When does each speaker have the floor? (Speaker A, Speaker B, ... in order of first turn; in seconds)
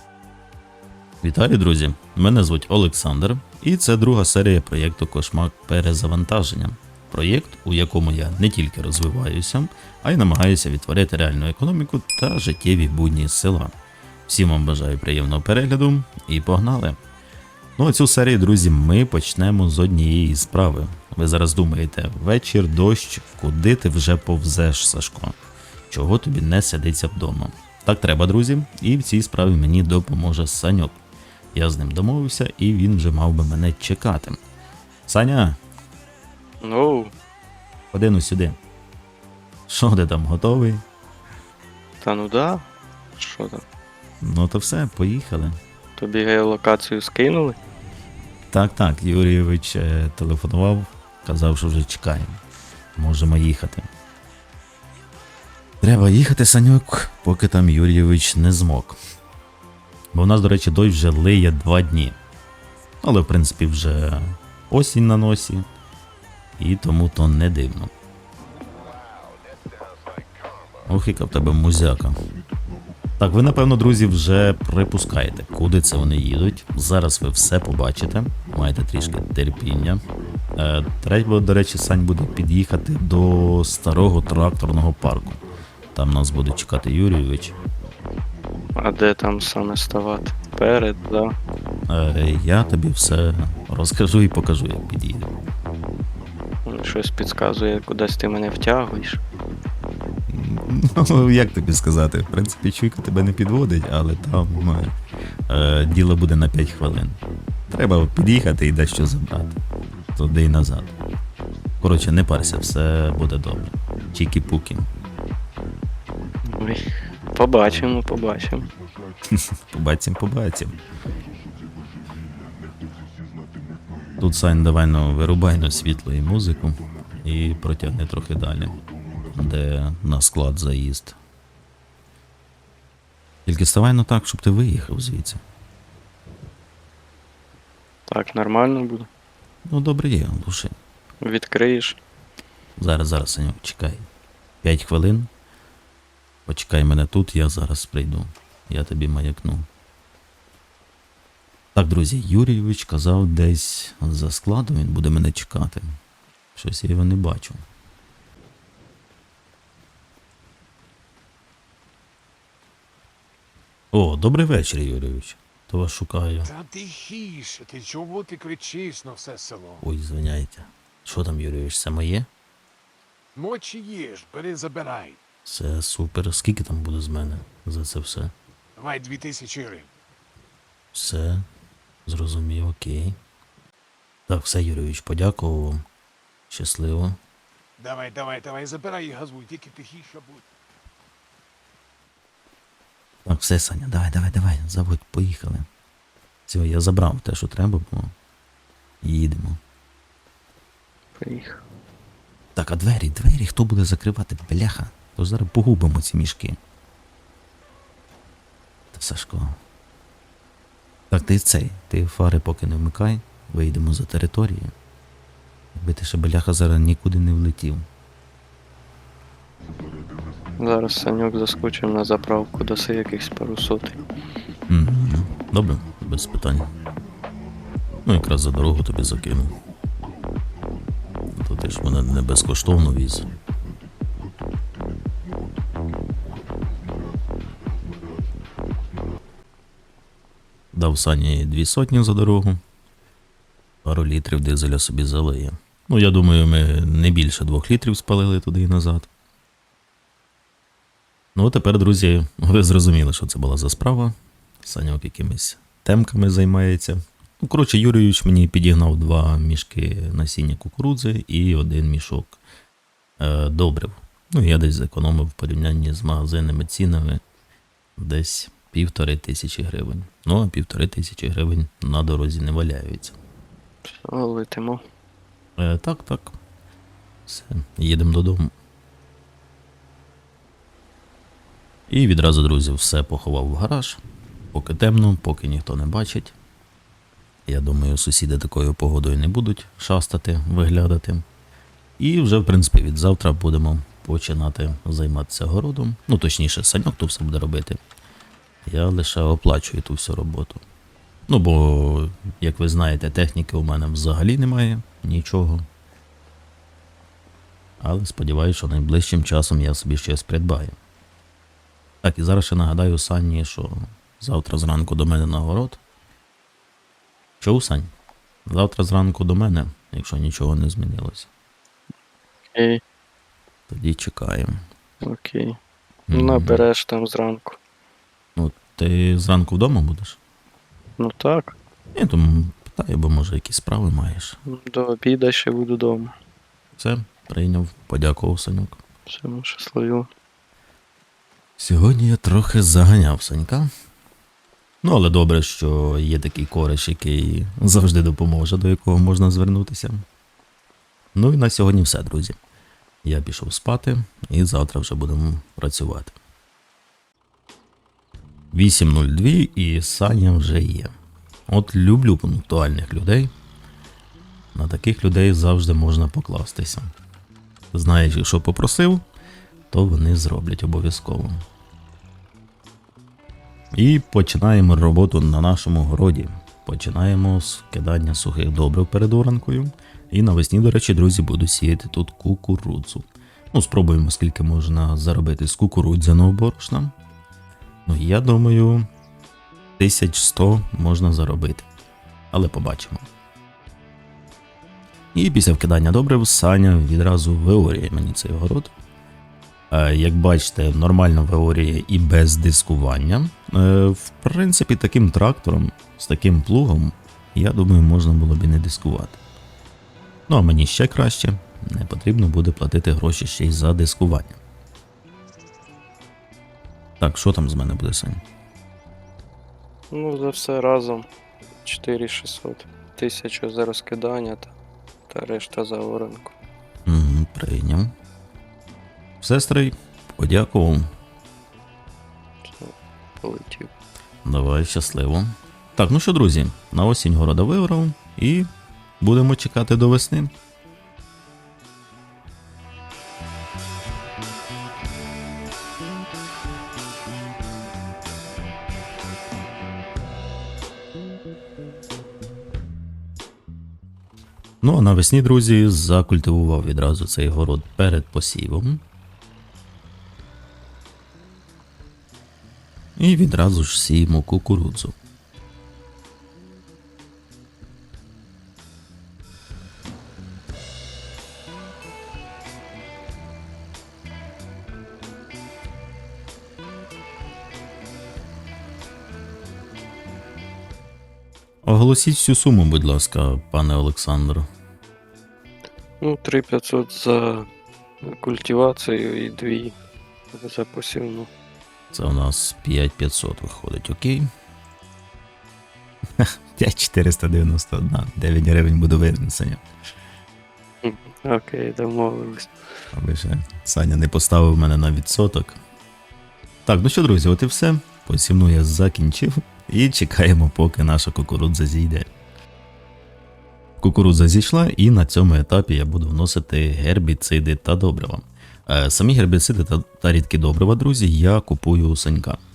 Speaker A: 1.2-13.7, 14.3-17.0, 17.8-25.4, 25.9-31.0, 31.5-34.4, 35.1-35.6, 37.9-38.6, 39.7-40.8, 44.2-45.6, 48.5-52.4, 53.0-53.9, 55.8-59.0, 60.1-62.2, 63.0-65.7, 66.6-67.9, 70.8-72.2, 73.2-80.0, 80.6-85.4, 85.9-87.6, 91.9-95.3, 100.3-104.9, 105.5-109.6, 110.2-110.9, 111.8-114.9, 119.3-120.8, 124.2-131.2, 133.5-135.4, 139.7-140.8, 142.8-144.1, 144.6-145.3, 146.5-149.7, 151.8-155.9, 156.6-157.6, 163.9-166.5, 169.8-172.3, 175.4-178.3, 180.9-181.5, 182.1-183.2, 184.3-185.8, 186.5-187.2, 193.3-195.7, 196.5-198.1, 199.0-199.6, 202.6-206.6, 208.9-209.6, 211.1-214.7, 215.8-217.8, 224.7-226.7, 228.1-229.5, 231.3-233.3, 240.7-242.6, 243.8-249.1, 251.3-262.4, 263.2-267.2, 268.0-273.2, 275.6-276.4, 277.3-278.5, 281.9-284.0, 284.5-286.3, 287.5-291.2, 292.0-297.8, 298.6-300.6, 301.3-305.6, 307.8-310.8, 312.0-315.8, 317.4-317.9, 318.4-321.3, 323.7-324.6, 326.1-326.6, 328.4-330.2, 331.9-334.4, 336.8-338.8, 341.6-343.7, 344.8-350.0, 351.1-352.4, 353.0-356.1, 358.5-360.9, 361.5-363.3, 364.5-366.9, 367.7-369.0, 369.7-371.3, 373.7-386.9, 387.9-388.8, 389.8-391.7, 392.3-393.1, 395.1-398.7, 399.7-409.2, 410.3-414.4, 417.0-418.2, 426.9-427.9, 429.2-430.8, 434.2-438.5, 439.0-440.3, 454.6-458.8, 463.0-464.9, 481.6-484.4, 491.9-494.3, 496.2-499.6, 502.9-505.6, 506.6-512.1, 513.8-522.4
Speaker B: 36.6-37.1, 42.0-43.6, 46.0-47.6, 88.8-91.3, 96.7-99.2, 117.3-118.7, 138.1-139.1, 141.2-142.0, 201.2-201.6, 220.6-224.0, 274.0-274.8, 322.5-322.8, 325.0-325.6, 326.1-327.6, 331.0-331.6, 334.4-336.1, 339.1-340.1, 419.9-421.1, 421.6-424.5, 425.1-426.3, 432.5-433.7, 486.0-487.5, 488.0-489.8, 490.3-491.3, 500.8-502.5
Speaker C: 166.4-169.8, 173.3-175.2, 178.8-179.9, 187.8-190.4